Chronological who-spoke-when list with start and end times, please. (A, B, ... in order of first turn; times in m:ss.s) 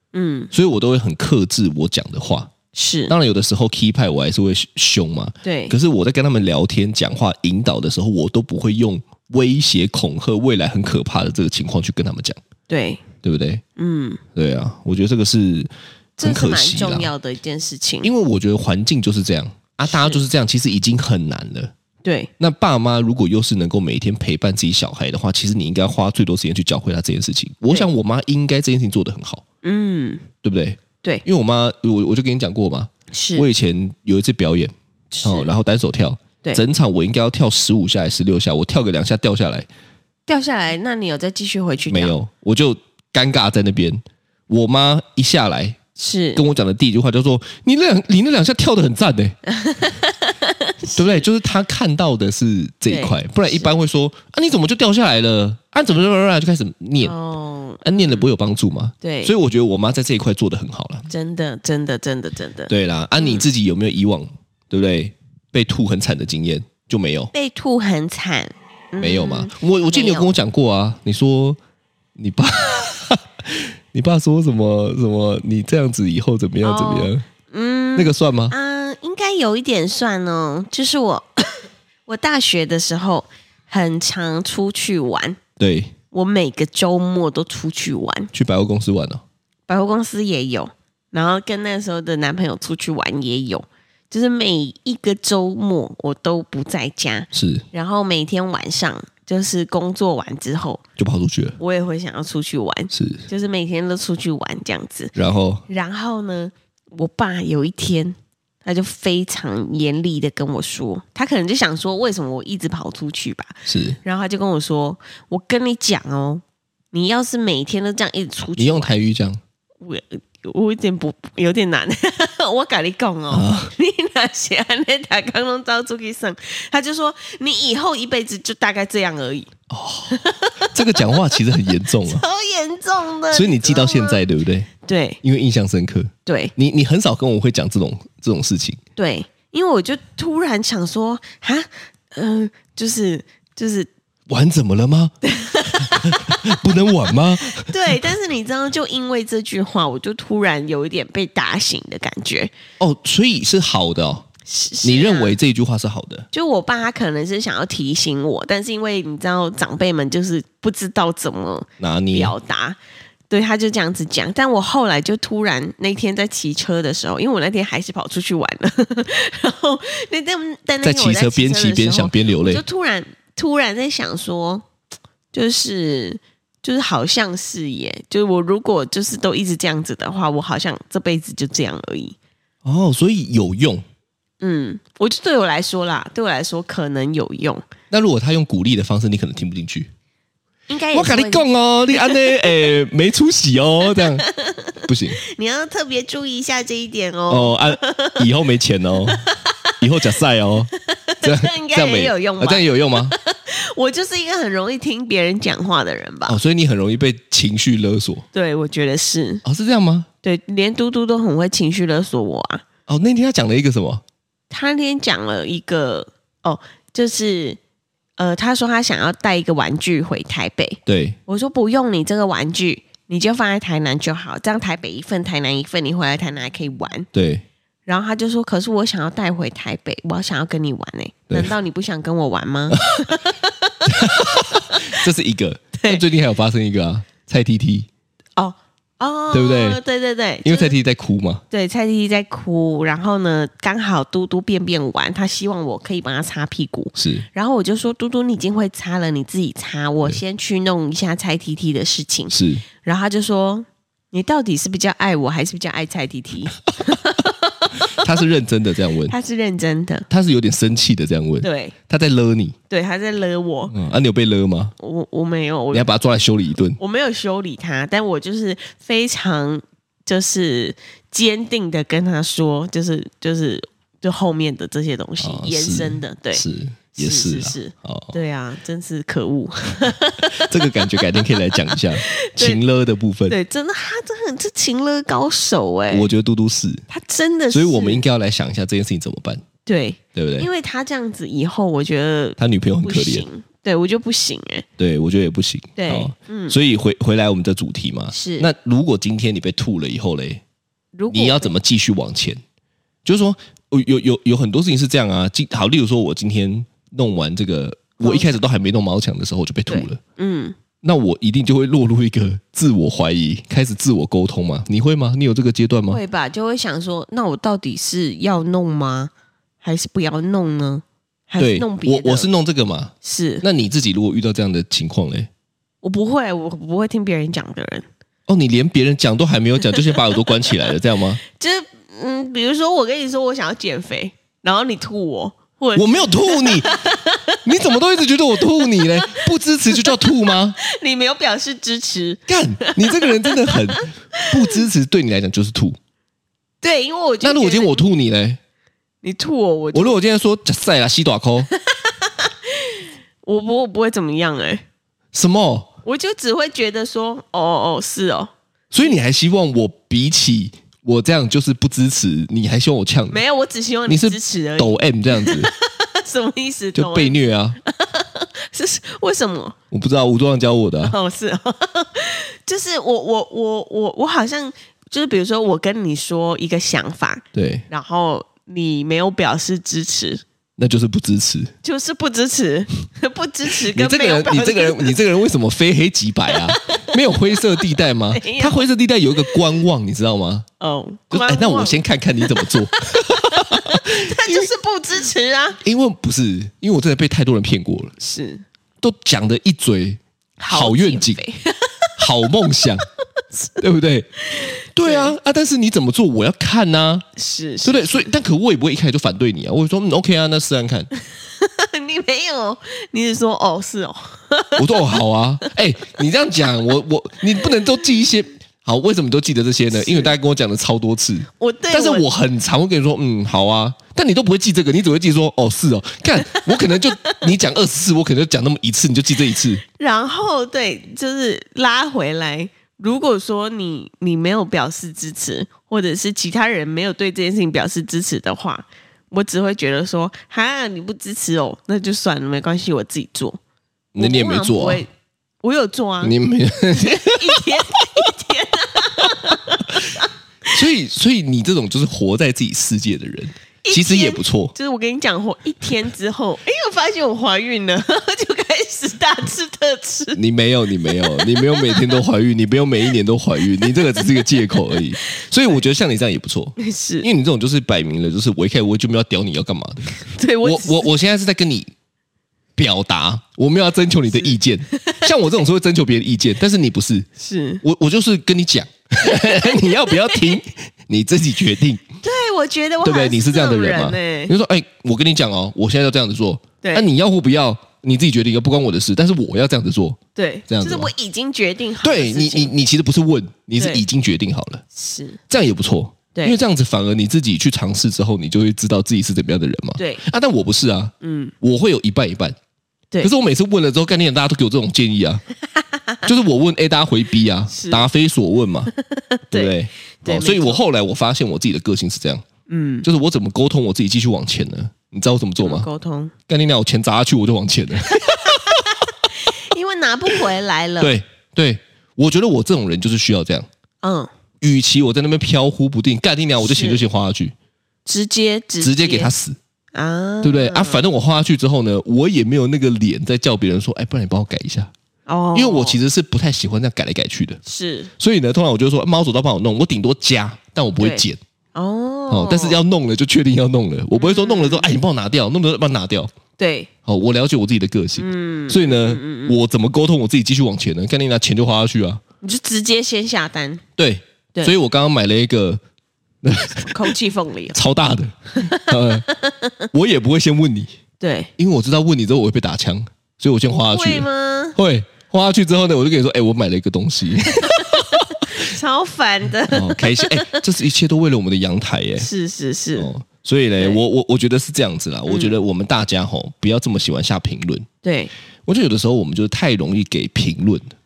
0:00.1-0:00.5 A
0:00.5-0:02.5 B
0:02.7-0:03.1 A
0:03.1-0:12.4 B
0:05.4-0:05.7 A
0:12.7-0:13.0 A
0:13.2-0:13.6 B
0:13.8-0:14.2 A
0:14.3-0:17.1 B
0:16.2-0:18.1 A
0:18.0-0:21.7 B
0:19.9-0:20.2 A
0:22.0-0:22.3 A
0:22.4-0:29.4 B
0:29.6-0:30.2 A
0:30.4-0:39.7 B
0:33.1-0:33.5 A
0:35.1-0:35.5 A
0:40.3-0:42.2 A
0:41.9-0:45.8 B
0:46.0-0:46.4 A
0:46.3-0:49.4 B
0:49.5-0:51.2 A
0:50.9-0:57.1 B
0:52.9-0:53.7 A
0:57.0-0:58.3 A
0:57.8-1:01.1 B
0:59.0-0:59.3 A
1:01.1-1:03.4 A
1:02.7-1:07.3 B
1:07.3-1:10.3 A
1:09.0-1:11.6 B
1:12.2-1:17.2 B
1:16.6-1:25.4 A
1:18.0-1:18.5 B
1:25.6-1:25.9 B
1:26.1-1:28.3 A
1:28.3-1:29.2 B
1:29.7-1:40.8 A
1:37.3-1:37.6 B
1:41.0-1:41.6 B
1:41.6-1:45.1 A
1:42.9-1:43.2 B
1:45.1-1:45.6 B
1:45.7-1:58.9 A
1:53.6-1:54.0 B
1:58.6-1:59.4 B
1:59.8-2:09.5 A
2:03.3-2:03.7 B
2:09.7-2:12.2 B
2:10.1-2:11.4 A
2:12.0-2:14.2 A
2:13.3-2:14.7 B
2:14.8-2:15.2 A
2:15.2-2:18.8 B
2:16.2-2:16.5 A
2:19.0-2:23.9 A
2:24.3-2:27.9 B
2:25.2-2:26.5 A
2:27.6-2:32.5 A
2:32.8-2:34.3 B
2:34.4-2:35.4 A
2:34.8-2:36.3 B
2:36.3-2:42.8 A
2:41.8-2:42.3 B
2:43.3-2:54.6 A
2:50.8-2:52.6 B
2:55.3-3:02.2 A
3:02.6-3:03.8 B
3:04.4-3:07.6 A
3:07.9-3:09.9 B
3:10.7-3:12.7 A
3:10.9-3:14.2 B
3:13.9-3:18.2 A
3:14.8-3:15.2 B
3:17.3-3:19.2 B
3:19.1-3:19.5 A
3:19.8-3:20.7 B
3:20.9-3:26.4 A
3:21.2-3:23.1 B
3:26.2-3:28.2 B
3:28.3-3:29.4 A
3:29.4-3:30.1 B
3:30.2-3:32.6 A
3:32.9-3:34.0 B
3:34.5-3:37.6 A
3:38.2-3:47.1 A
3:40.8-3:41.2 B
3:47.1-3:47.4 B
3:47.8-3:54.9 A
3:53.8-3:57.9 B
3:55.8-3:56.0 A
3:58.4-4:00.7 A
3:59.3-3:59.8 B
4:00.4-4:01.4 B
4:01.5-4:18.0 A
4:07.0-4:07.2 B
4:12.3-4:12.6 B
4:17.9-4:19.1 B
4:19.1-4:20.1 A
4:20.1-4:22.6 B
4:21.4-4:21.7 A
4:22.7-4:23.7 A
4:23.7-4:24.7 B
4:24.8-4:25.9 A
4:25.7-4:26.8 B
4:26.8-4:42.6 A
4:35.2-4:38.2 B
4:40.2-4:43.4 B
4:43.3-4:46.1 A
4:45.9-4:46.8 B
4:46.9-4:48.0 A
4:47.5-4:49.4 B
4:49.6-4:54.6 A
4:50.1-4:50.5 B
4:52.4-4:53.2 B
4:54.8-5:00.4 B
4:55.8-4:56.6 A
4:58.1-4:58.5 A
5:01.0-5:01.5 A
5:01.1-5:02.4 B
5:03.0-5:10.0 B
5:08.0-5:08.4 A
5:09.7-5:10.6 A
5:10.8-5:16.0 B
5:15.9-5:19.1 A
5:19.6-5:22.3 A
5:21.4-5:25.3 B
5:23.0-5:23.4 A
5:25.8-5:27.8 A
5:28.3-5:31.2 B
5:31.2-5:37.4 A
5:35.8-5:40.6 B
5:38.6-5:44.6 A
5:42.3-5:45.8 B
5:46.6-5:47.8 A
5:47.2-5:48.4 B
5:49.0-5:50.0 A
5:49.7-5:51.5 B
5:51.6-5:54.6 A
5:55.1-5:55.7 B
5:55.8-5:59.0 A
5:58.7-6:03.2 B
6:03.1-6:09.6 A
6:03.9-6:05.5 B
6:06.7-6:07.6 B
6:09.7-6:10.9 B
6:10.8-6:20.2 A
6:17.3-6:17.6 B
6:20.6-6:21.5 B
6:21.6-6:25.0 A
6:23.5-6:30.4 B
6:26.3-6:26.9 A
6:27.6-6:28.6 A
6:30.6-6:35.6 A
6:31.1-6:34.5 B
6:35.6-6:37.9 B
6:38.0-6:38.4 A
6:38.8-6:41.2 B
6:40.4-6:41.9 A
6:42.0-6:42.8 B
6:43.6-6:47.0 B
6:44.3-6:45.1 A
6:47.2-6:48.1 A
6:47.6-6:50.9 B
6:51.4-6:54.9 A
6:54.6-7:09.6 B
6:59.7-7:00.1 A
7:01.4-7:02.0 A
7:06.2-7:07.2 A
7:09.6-7:23.4 A
7:23.9-7:24.8 B
7:24.0-7:24.9 A
7:25.4-7:26.2 A
7:26.0-7:27.4 B
7:26.7-7:30.1 A
7:30.5-7:34.5 B
7:33.6-7:40.2 A
7:40.2-7:49.9 B
7:40.9-7:42.0 A
7:43.4-7:44.8 A
7:46.6-7:47.1 A
7:50.0-7:50.9 A
7:50.4-7:51.7 B
7:52.6-7:57.1 B
7:54.2-7:55.0 A
7:57.2-7:57.6 A
7:57.6-8:01.8 B
7:59.0-8:00.2 A
8:02.0-8:04.3 A
8:02.8-8:10.9 B
8:06.6-8:06.9 A
8:10.2-8:12.5 A
8:11.8-8:14.6 B
8:13.6-8:13.8 A
8:14.7-8:15.2 A
8:15.3-8:22.4 B
8:19.8-8:20.0 A
8:21.0-8:21.3 A
8:23.0-8:25.2 B
8:26.0-8:28.7 B
8:27.5-8:27.9 A
8:28.9-8:30.6 A
8:29.3-8:32.2 B
8:32.5-8:32.8 A
8:32.8-8:35.7 B
8:35.4-8:36.1 A
8:36.3-8:38.7 B
8:38.0-8:40.9 A
8:40.8-8:43.5 B
8:43.8-8:44.1 A
8:44.4-8:47.3 B
8:46.4-8:46.8 A
8:47.8-8:49.1 A
8:48.6-8:49.4 B
8:49.7-8:50.9 A
8:50.2-8:54.7 B
8:55.1-8:55.8 A
8:55.3-8:57.4 B
8:57.4-8:57.9 A
8:58.0-9:01.2 B
9:00.8-9:02.6 A
9:02.1-9:06.1 B
9:04.0-9:04.8 A
9:06.4-9:06.7 A
9:06.8-9:12.0 B
9:08.0-9:09.4 A
9:12.2-9:13.6 A
9:13.8-9:15.6 B
9:16.2-9:16.9 B
9:16.6-9:17.6 A
9:17.5-9:19.0 B
9:18.3-9:19.7 A
9:19.7-9:20.7 B
9:21.0-9:21.3 A
9:21.4-9:28.4 B
9:23.7-9:24.6 A
9:27.5-9:30.4 A
9:29.5-9:32.1 B
9:32.0-9:32.9 A
9:32.8-9:37.7 B
9:35.1-9:35.3 A
9:37.8-9:38.1 A
9:38.4-9:40.7 B